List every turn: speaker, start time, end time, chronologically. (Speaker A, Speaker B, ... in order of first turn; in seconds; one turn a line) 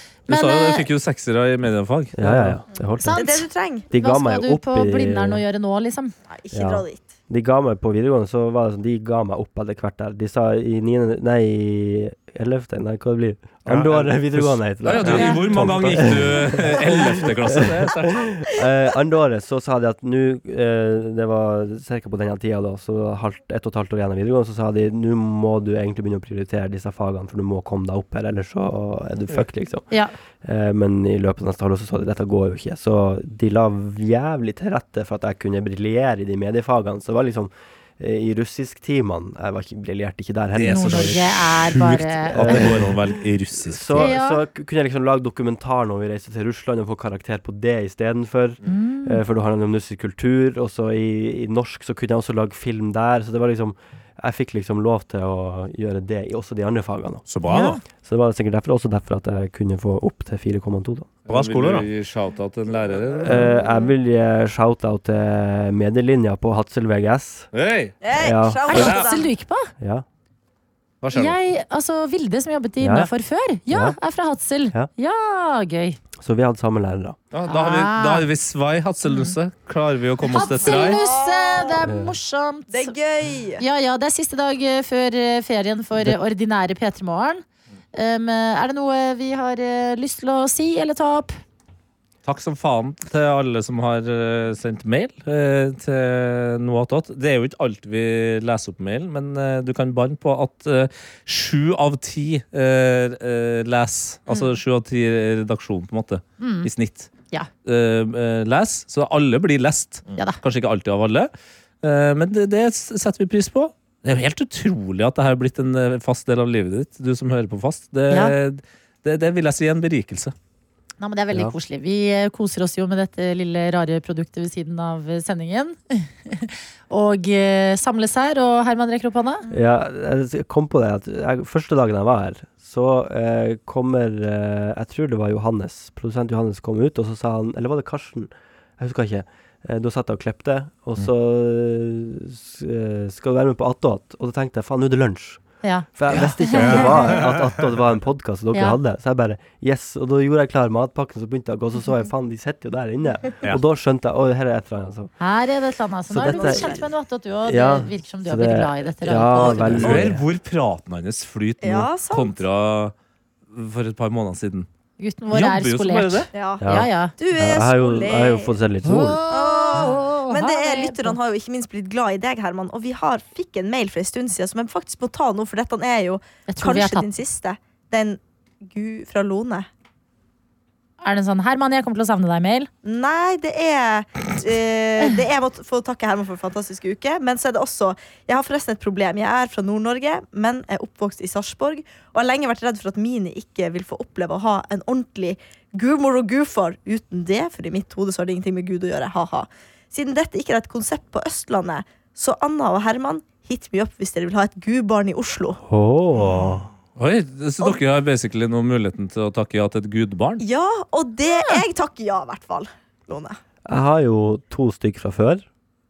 Speaker A: 0.3-0.9
Speaker B: 0.3-2.6
Speaker C: 2.1-3.4
Speaker A: 3.0-6.1
Speaker D: 3.1-3.9
Speaker C: 3.9-5.4
Speaker D: 6.3-7.0
Speaker C: 6.5-29.9
Speaker B: 13.7-18.3
Speaker A: 15.0-15.5
Speaker C: 30.4-41.3
Speaker B: 40.5-44.1
Speaker A: 40.7-42.7
Speaker C: 42.3-57.2
Speaker A: 44.0-44.4
Speaker A: 48.6-49.2
Speaker E: 57.3-57.8
Speaker A: 57.5-57.8
Speaker C: 58.0-61.1
Speaker E: 61.3-61.9
Speaker B: 61.3-63.5
Speaker C: 63.2-67.5
Speaker B: 67.5-68.0
Speaker D: 68.0-69.3
Speaker C: 68.2-68.7
Speaker B: 68.7-69.1
Speaker A: 68.7-69.7
Speaker C: 69.8-70.0
Speaker B: 71.0-71.4
Speaker A: 71.1-76.0
Speaker C: 72.8-73.1
Speaker C: 73.7-74.0
Speaker C: 76.2-77.2
Speaker B: 77.3-81.0
Speaker A: 77.5-78.3
Speaker A: 79.1-79.3
Speaker A: 80.3-82.9
Speaker D: 80.4-81.8
Speaker C: 81.8-82.1
Speaker D: 82.7-83.6
Speaker A: 83.6-87.4
Speaker A: 87.9-91.4
Speaker B: 92.2-107.1
Speaker A: 106.4-106.7
Speaker B: 107.6-111.3
Speaker B: 111.8-120.3
Speaker A: 118.1-118.3
Speaker A: 121.0-129.4
Speaker C: 129.5-155.1
Speaker A: 145.6-147.2
Speaker E: 146.6-147.5
Speaker A: 155.2-160.2
Speaker C: 156.1-156.8
Speaker D: 156.2-156.9
Speaker C: 157.5-160.2
Speaker D: 159.4-160.1
Speaker B: 159.7-162.9
Speaker D: 161.6-162.4
Speaker B: 163.5-164.7
Speaker A: 165.0-167.1
Speaker B: 165.3-166.3
Speaker D: 166.3-168.5
Speaker C: 166.6-169.2
Speaker A: 168.8-171.2
Speaker D: 169.3-179.7
Speaker A: 176.5-177.1
Speaker A: 181.0-182.7
Speaker D: 182.8-205.6
Speaker C: 205.6-206.7
Speaker B: 206.9-210.4
Speaker D: 210.4-213.3
Speaker A: 211.3-211.6
Speaker C: 213.7-215.4